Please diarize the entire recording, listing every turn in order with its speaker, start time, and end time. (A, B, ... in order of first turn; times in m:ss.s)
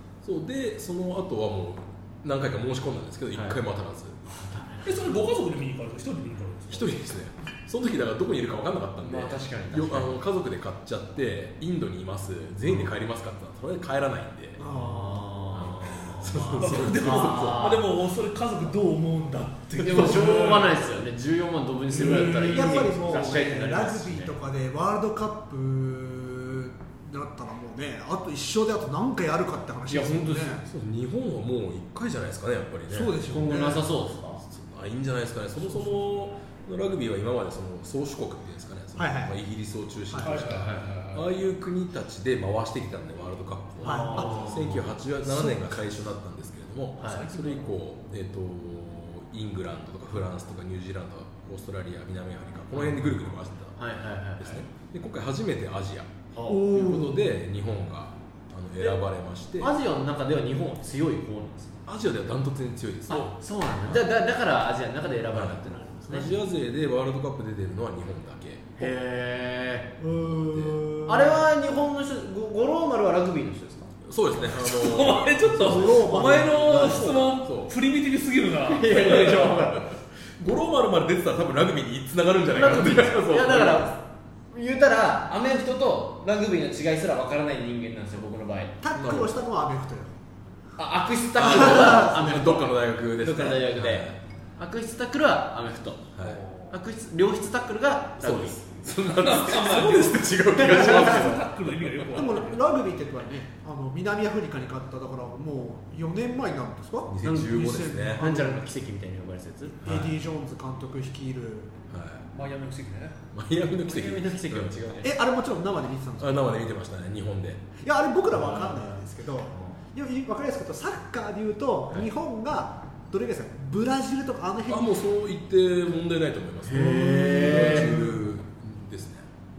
0:00.2-0:04.2 A
0:03.3-0:03.6 B
0:04.2-0:05.1 B
0:04.8-0:06.9 C
0:06.7-0:14.6 A
0:09.0-0:10.1 B
0:14.6-0:15.4 D
0:14.6-0:17.9 B
0:15.5-0:17.7 A
0:16.6-0:20.8 C
0:19.8-0:24.4 B
0:21.9-0:23.0 C
0:22.5-0:30.7 D
0:29.9-0:30.6 B
0:30.7-0:33.7 A
0:32.9-0:33.9 D
0:33.3-0:34.4 B
0:34.4-0:53.8 A
0:39.0-0:39.4 D
0:40.1-0:40.5 D
0:40.2-0:41.1 C
0:40.6-0:41.1 B
0:43.8-0:44.4 D
0:43.8-0:44.9 B
0:45.2-0:45.6 D
0:47.0-0:47.3 B
0:47.0-0:47.7 C
0:52.7-0:53.1 B
0:53.8-0:54.6 B
0:54.4-0:56.1 A
0:56.3-0:57.0 B
0:56.5-0:57.2 D
0:56.7-0:59.7 A
0:59.6-1:01.7 B
1:01.9-1:03.3 A
1:03.1-1:06.4 B
1:05.3-1:08.9 A
1:08.8-1:09.9 B
1:10.0-1:11.4 D
1:10.5-1:10.8 A
1:11.0-1:13.9 B
1:14.0-1:15.7 A
1:14.4-1:19.7 C
1:15.5-1:17.3 D
1:17.3-1:17.7 A
1:18.7-1:19.9 B
1:19.6-1:24.0 A
1:22.5-1:28.8 B
1:28.8-1:30.2 D
1:29.0-1:29.3 A
1:30.8-1:36.1 B
1:31.4-1:34.2 A
1:31.5-1:32.4 D
1:36.2-1:36.7 C
1:36.7-1:38.6 B
1:38.2-1:42.3 A
1:39.1-1:42.6 C
1:42.1-1:48.6 D
1:47.1-1:48.2 A
1:47.2-1:49.8 B
1:49.8-1:51.7 D
1:49.8-1:50.1 A
1:51.9-1:52.2 A
1:52.3-1:53.2 C
1:53.3-1:54.8 A
1:53.8-1:55.1 B
1:55.0-1:56.6 D
1:56.2-1:57.7 A
1:57.8-2:04.9 D
1:58.3-1:59.0 B
2:04.7-2:09.3 A
2:06.6-2:08.1 B
2:06.7-2:08.2 D